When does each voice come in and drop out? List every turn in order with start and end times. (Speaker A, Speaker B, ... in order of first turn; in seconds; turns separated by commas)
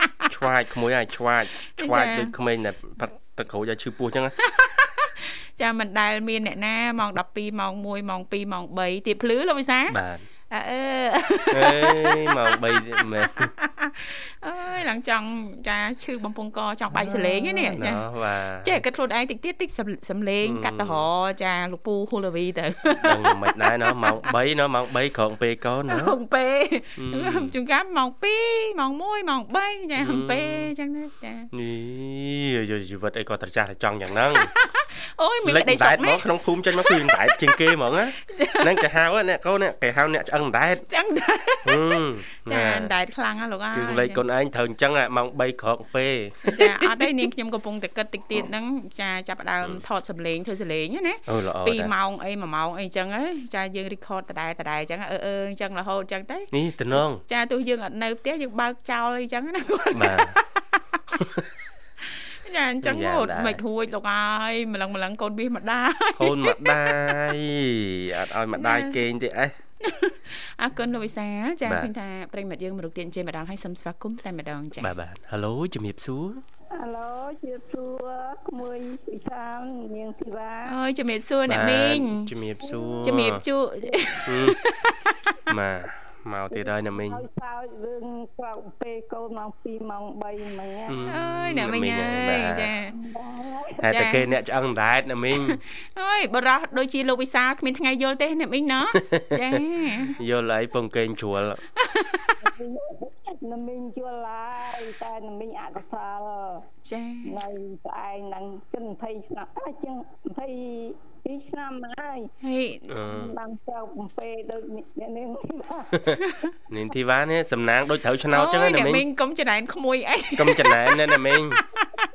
Speaker A: 0.3-4.4, Speaker B: 1.8-2.3, Speaker B: 4.4-10.0, Speaker A: 9.9-10.3, Speaker B: 10.5-18.0, Speaker A: 11.5-13.5, Speaker A: 16.9-18.8, Speaker B: 18.6-24.3, Speaker A: 20.4-21.1, Speaker A: 22.9-26.2, Speaker B: 25.9-31.5, Speaker A: 27.0-27.5, Speaker A: 30.0-30.7, Speaker A: 31.5-34.5, Speaker B: 34.3-36.2, Speaker A: 35.4-40.8, Speaker B: 36.8-37.6, Speaker B: 38.2-38.8, Speaker B: 40.9-44.2, Speaker A: 41.6-42.9, Speaker A: 43.7-47.1, Speaker B: 46.5-61.2, Speaker A: 51.3-51.9, Speaker A: 56.5-57.2, Speaker A: 59.9-60.4, Speaker B: 62.0-67.3, Speaker A: 62.8-63.6, Speaker A: 66.1-69.5, Speaker B: 68.5-69.0, Speaker B: 69.8-74.9, Speaker A: 74.8-76.4, Speaker C: 76.7-80.8, Speaker B: 80.7-82.3, Speaker A: 81.5-83.4, Speaker C: 82.6-83.2, Speaker B: 83.0-85.4, Speaker C: 83.8-84.1, Speaker A: 84.2-84.6, Speaker A: 85.5-87.2, Speaker C: 86.5-91.1, Speaker A: 90.9-92.7, Speaker B: 91.1-92.9, Speaker C: 92.9-93.9, Speaker A: 93.8-95.6, Speaker B: 93.9-94.2, Speaker B: 95.5-100.1, Speaker A: 98.9-101.6, Speaker B: 101.8-102.3, Speaker C: 102.4-106.7, Speaker B: 106.8-107.3, Speaker C: 107.2-112.3, Speaker B: 112.4-112.9, Speaker A: 112.9-113.3, Speaker C: 113.0-116.2, Speaker A: 116.7-119.0, Speaker B: 118.3-121.0, Speaker A: 120.3-121.6